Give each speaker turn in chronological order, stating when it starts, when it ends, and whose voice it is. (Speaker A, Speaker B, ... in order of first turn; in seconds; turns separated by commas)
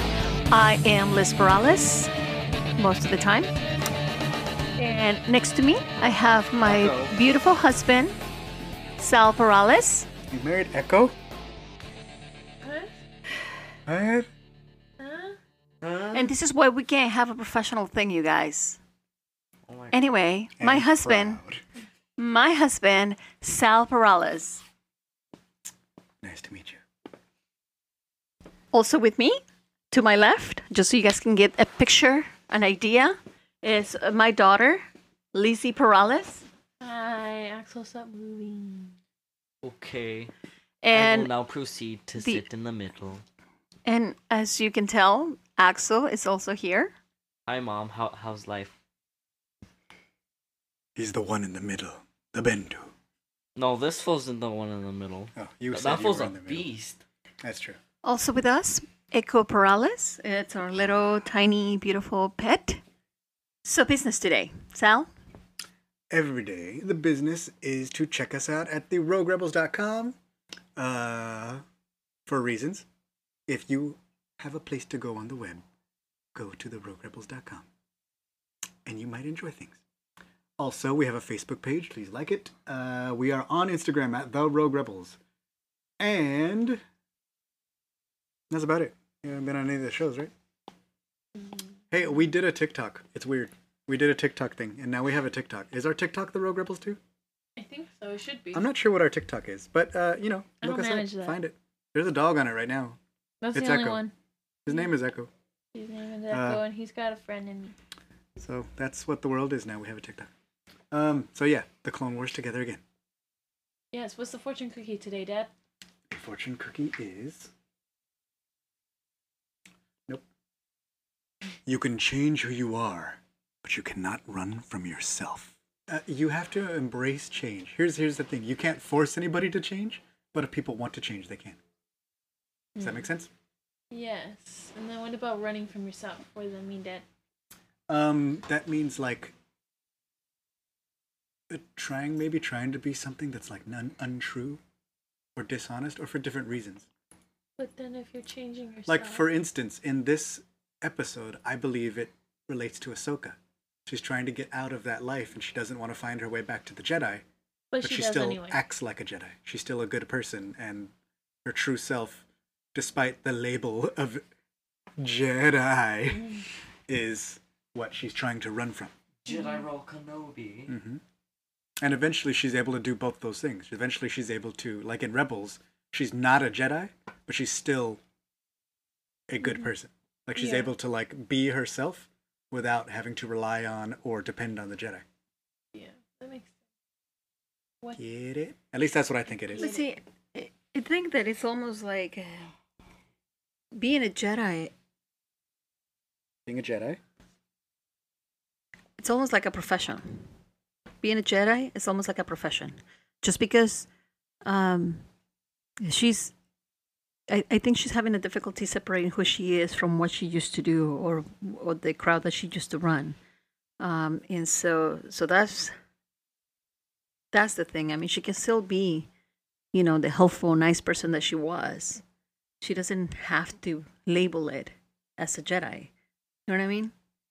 Speaker A: 0.5-2.1, Speaker A: 2.8-3.5, Speaker A: 4.8-8.2, Speaker B: 6.6-7.1, Speaker A: 9.0-10.1, Speaker C: 10.3-11.1, Speaker D: 12.6-12.9, Speaker C: 13.9-14.3, Speaker D: 15.0-15.4, Speaker B: 15.8-16.3, Speaker A: 16.1-18.8, Speaker B: 19.7-20.0, Speaker A: 19.9-21.4, Speaker C: 20.6-21.6, Speaker A: 22.2-24.6, Speaker C: 26.2-26.8, Speaker A: 28.7-36.4, Speaker D: 36.8-39.0, Speaker B: 39.6-40.3, Speaker A: 40.8-41.3, Speaker B: 40.9-43.2, Speaker A: 43.9-46.9, Speaker B: 47.5-48.7, Speaker C: 51.0-52.9, Speaker B: 53.5-57.0, Speaker C: 55.4-56.7, Speaker C: 57.4-57.8, Speaker A: 58.0-62.8, Speaker A: 63.6-65.1, Speaker C: 66.1-70.2, Speaker C: 70.8-71.6, Speaker C: 72.3-72.8, Speaker C: 73.5-75.6, Speaker C: 76.3-77.7, Speaker C: 78.8-79.8, Speaker C: 80.6-85.2, Speaker C: 86.0-86.8, Speaker C: 88.5-90.3, Speaker D: 91.4-91.6, Speaker C: 91.9-97.0, Speaker D: 97.6-98.7, Speaker C: 98.5-103.0, Speaker D: 100.6-101.4, Speaker D: 103.4-104.1, Speaker C: 103.5-104.0, Speaker C: 104.7-105.3, Speaker D: 105.7-107.7, Speaker C: 106.3-106.6, Speaker C: 108.4-110.3, Speaker C: 110.9-112.8, Speaker D: 113.9-115.5, Speaker C: 116.1-117.5, Speaker C: 121.7-131.6, Speaker D: 132.8-133.0, Speaker C: 132.8-133.3, Speaker D: 133.9-137.0, Speaker C: 137.9-139.3, Speaker C: 141.5-144.6, Speaker C: 145.3-146.9, Speaker D: 147.6-149.2, Speaker C: 148.9-157.2, Speaker D: 157.7-158.6, Speaker C: 157.8-160.9, Speaker C: 161.4-162.2, Speaker C: 162.7-164.2, Speaker C: 165.0-166.3, Speaker C: 166.9-168.9, Speaker B: 169.2-170.7, Speaker D: 169.3-169.6, Speaker C: 170.7-171.0, Speaker C: 171.8-178.0, Speaker C: 179.3-185.0, Speaker D: 180.3-180.7, Speaker D: 185.7-186.5, Speaker C: 187.9-189.7, Speaker D: 189.5-189.8, Speaker A: 189.6-192.5, Speaker A: 193.7-194.7, Speaker C: 196.4-197.0, Speaker A: 199.0-200.0, Speaker A: 201.0-203.9, Speaker A: 204.4-205.0, Speaker A: 205.8-206.3, Speaker A: 207.3-213.2, Speaker A: 213.8-215.7, Speaker A: 217.3-219.1, Speaker A: 219.7-222.0, Speaker A: 222.6-225.9, Speaker A: 226.5-226.9